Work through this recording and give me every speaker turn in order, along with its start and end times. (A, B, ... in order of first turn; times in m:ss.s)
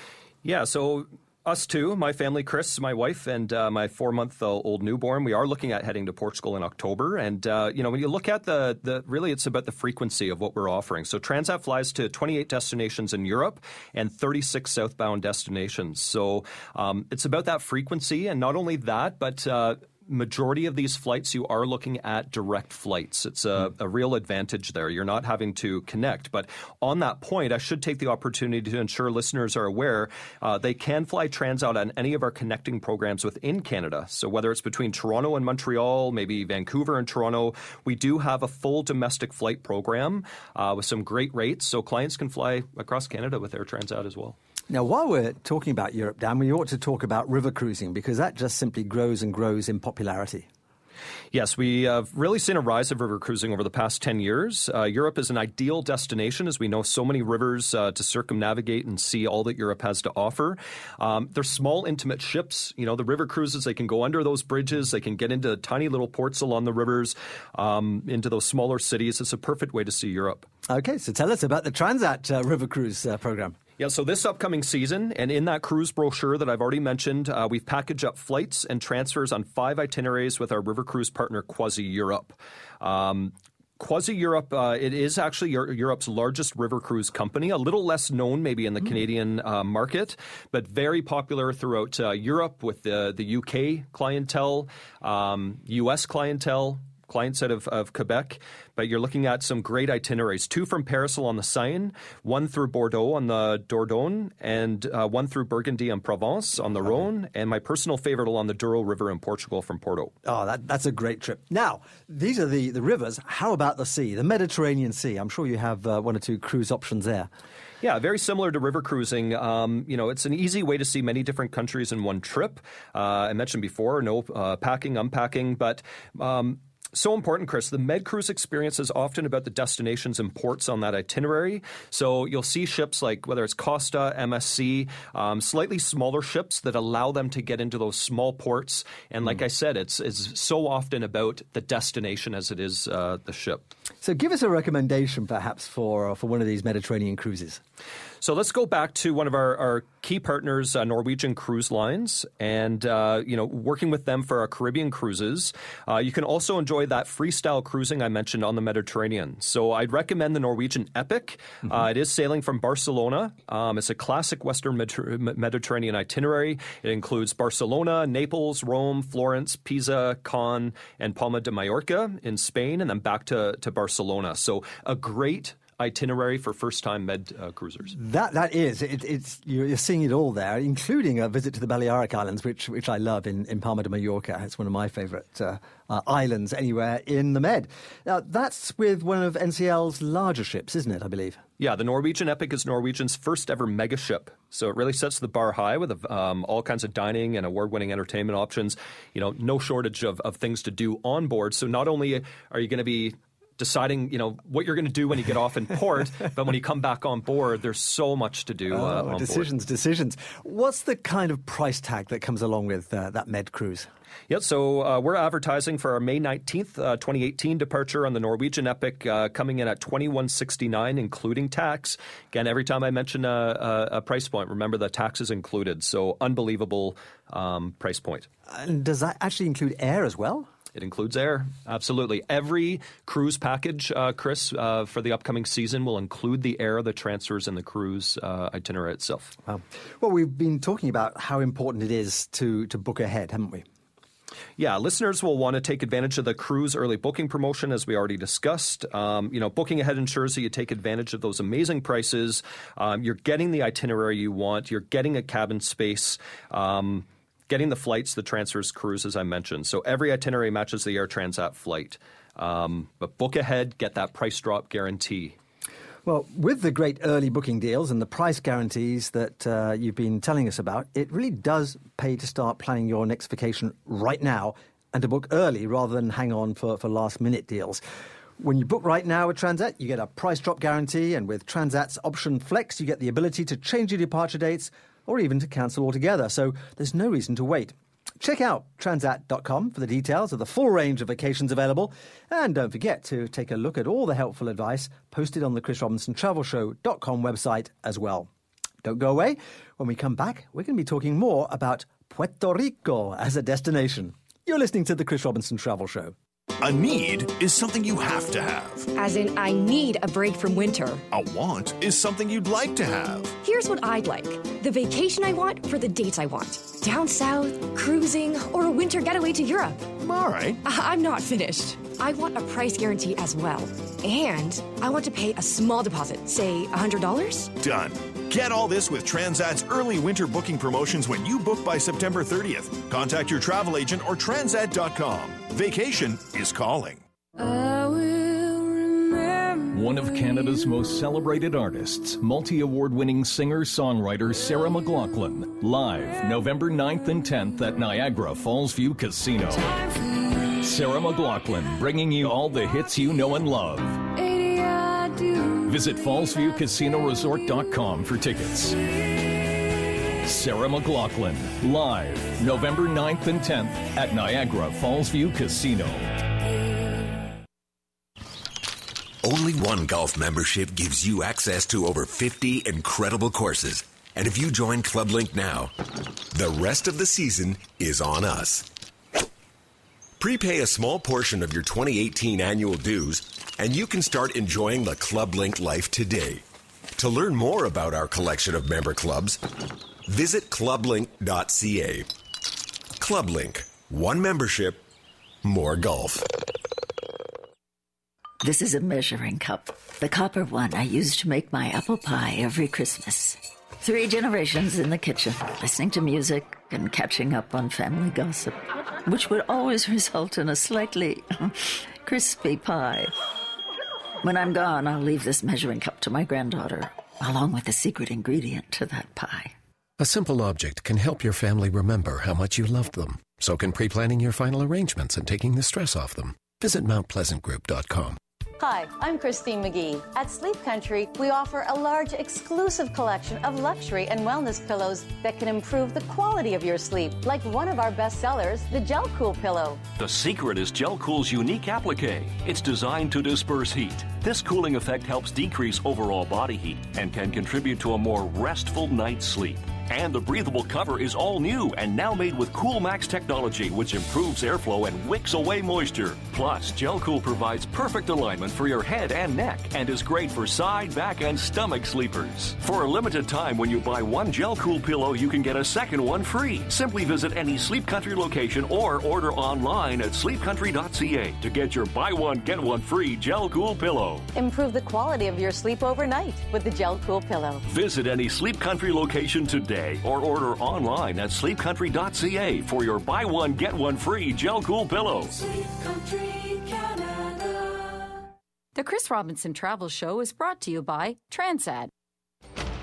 0:00.4-0:44.4 A
0:44.7-0:50.5 B
0:51.3-1:10.5 A
1:10.7-1:13.6 B
1:13.8-1:50.1 A
1:50.2-1:57.3 B
1:57.8-2:23.7 A
2:24.0-2:27.6 B
2:28.2-2:58.0 A
2:57.9-3:11.4 B
3:11.6-3:29.5 A
3:28.7-3:33.9 B
3:34.3-3:48.3 A
3:48.5-3:50.5 B
3:50.7-3:59.3 A
3:59.4-4:03.6 B
4:04.6-4:25.4 A
4:26.0-4:37.8 B
4:38.4-4:58.3 B
4:58.8-5:06.1 B
5:06.6-5:08.9 C
5:09.0-5:11.0 D
5:11.1-5:13.3 C
5:13.4-5:19.9 D
5:20.0-5:20.6 C
5:20.6-5:27.5 D
5:27.6-5:37.0 C
5:39.6-5:49.8 E
5:50.6-5:54.2 E
5:55.5-5:58.8 E
6:00.2-6:06.1 E
6:09.2-6:15.7 F
6:16.3-6:18.7 F
6:20.2-6:26.4 F
6:27.0-6:29.4 F
6:30.0-6:32.1 F
6:33.0-6:34.8 F
6:35.4-6:36.3 F
6:38.4-6:53.1 G
6:54.2-6:59.5 G
7:00.0-7:08.2 H
7:08.6-7:19.8 I
7:20.0-7:54.3 J
7:54.3-7:57.6 I
7:57.6-8:05.4 J
8:08.8-8:11.9 K